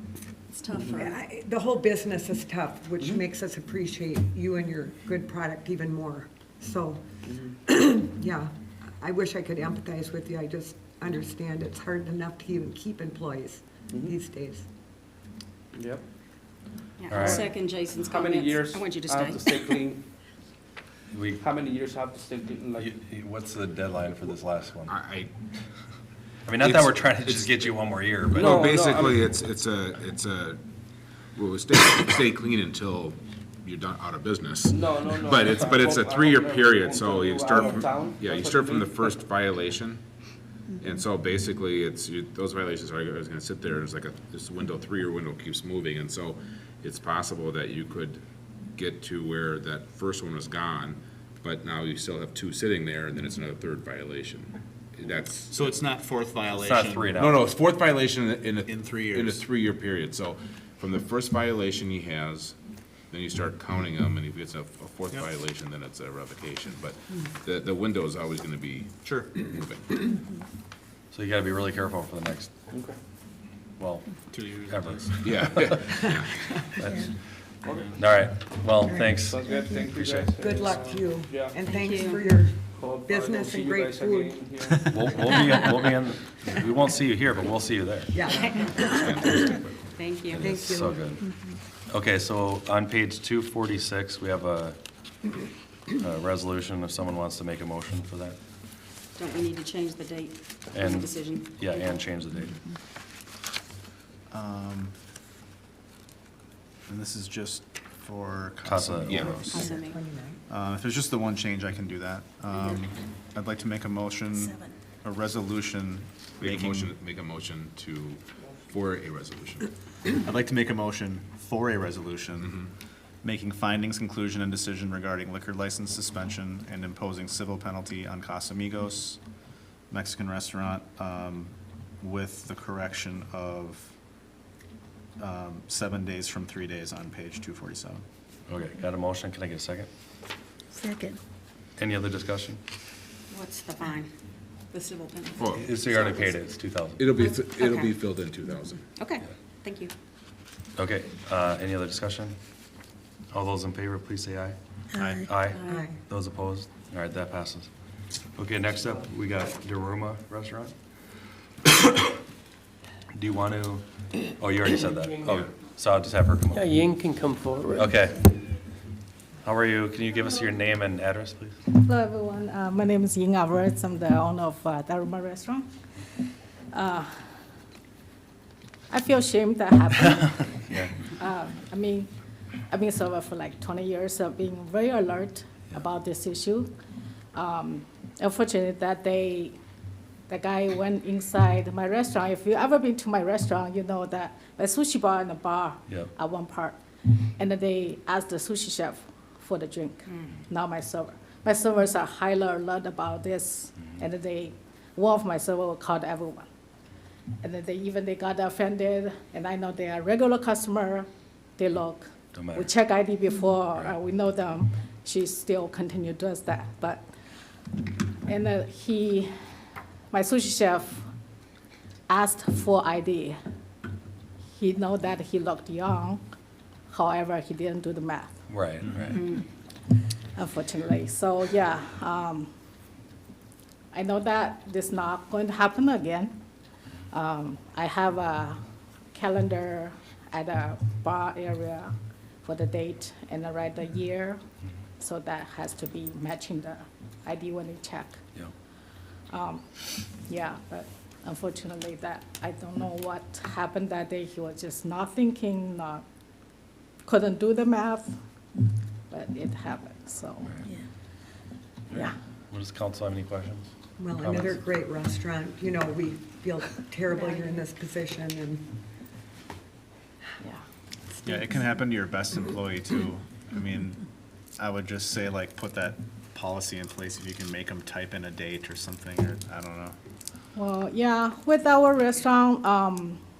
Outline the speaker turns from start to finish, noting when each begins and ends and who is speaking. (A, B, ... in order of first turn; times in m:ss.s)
0:00.5-0:01.2 A
0:00.7-0:01.1 B
0:00.9-0:14.7 C
0:07.2-0:07.6 B
0:13.9-0:14.2 B
0:15.7-0:16.0 B
0:17.0-0:19.8 A
0:17.1-0:17.5 D
0:17.1-0:20.0 B
0:21.1-0:21.4 D
0:21.4-0:22.9 B
0:22.8-0:25.0 D
0:24.9-0:25.3 E
0:26.5-0:28.7 D
0:26.6-0:27.8 E
0:28.3-0:29.3 B
0:28.3-0:30.6 E
0:31.4-0:40.0 E
0:34.7-0:39.2 B
0:40.8-0:48.2 E
0:48.8-0:55.8 E
0:55.5-0:57.1 F
0:56.5-0:57.4 D
0:57.1-1:02.6 E
0:58.7-0:59.4 F
1:03.1-1:09.8 E
1:09.0-1:09.4 F
1:11.1-1:12.5 D
1:12.7-1:13.0 B
1:13.8-1:16.0 D
1:14.3-1:15.2 F
1:15.2-1:16.5 E
1:16.8-1:17.1 D
1:17.6-1:18.0 B
1:18.0-1:20.3 D
1:18.8-1:19.2 C
1:19.3-1:25.4 B
1:20.4-1:24.5 C
1:21.7-1:22.2 A
1:24.9-1:28.2 D
1:28.1-1:29.4 C
1:28.4-1:30.6 A
1:28.5-1:29.8 E
1:29.2-1:29.6 D
1:30.3-1:31.3 D
1:30.3-1:31.2 C
1:31.9-1:34.8 D
1:36.0-1:38.4 D
1:39.2-1:41.4 A
1:40.7-1:42.6 D
1:44.3-1:45.0 F
1:46.9-1:49.8 F
1:48.6-1:49.6 D
1:49.0-1:49.4 E
1:49.5-1:50.0 A
1:49.5-1:50.4 C
1:50.5-1:57.0 F
1:56.4-1:59.7 E
2:00.2-2:02.6 F
2:02.4-2:02.7 E
2:03.2-2:09.2 F
2:09.9-2:13.9 F
2:15.2-2:18.0 F
2:18.5-2:19.9 D
2:21.8-2:22.6 D
2:23.3-2:24.1 A
2:24.7-2:26.3 A
2:25.4-2:25.7 E
2:25.5-2:27.1 D
2:27.0-2:28.9 E
2:27.5-2:28.0 A
2:29.0-2:29.9 A
2:30.8-2:32.4 D
2:33.3-2:34.6 D
2:35.1-2:37.7 D
2:35.5-2:35.8 A
2:35.7-2:36.0 C
2:38.4-2:40.8 D
2:43.2-2:46.6 D
2:44.8-2:45.4 G
2:46.5-2:47.9 G
2:47.8-2:48.3 D
2:49.4-2:51.6 D
2:51.8-2:55.7 H
2:56.7-2:57.2 H
2:58.9-3:02.1 H
3:00.6-3:01.0 D
3:02.7-3:06.7 H
3:07.3-3:09.6 H
3:10.3-3:16.8 H
3:17.4-3:26.5 H
3:27.4-3:31.1 H
3:31.6-3:37.0 H
3:32.3-3:32.7 D
3:38.2-3:39.3 H
3:40.1-3:41.0 H
3:42.1-3:43.4 H
3:44.6-3:46.2 H
3:46.9-3:48.3 H
3:48.5-3:49.3 D
3:50.4-3:52.5 H
3:53.9-3:56.4 H
3:57.1-3:58.6 H
3:59.1-4:04.4 H
4:05.0-4:08.2 H
4:09.3-4:09.7 H
4:10.3-4:16.0 H
4:17.0-4:18.2 H
4:19.1-4:20.5 H
4:21.9-4:24.6 D
4:24.0-4:28.6 C
4:31.2-4:34.0 F
4:34.6-4:40.0 F
4:40.6-4:43.2 H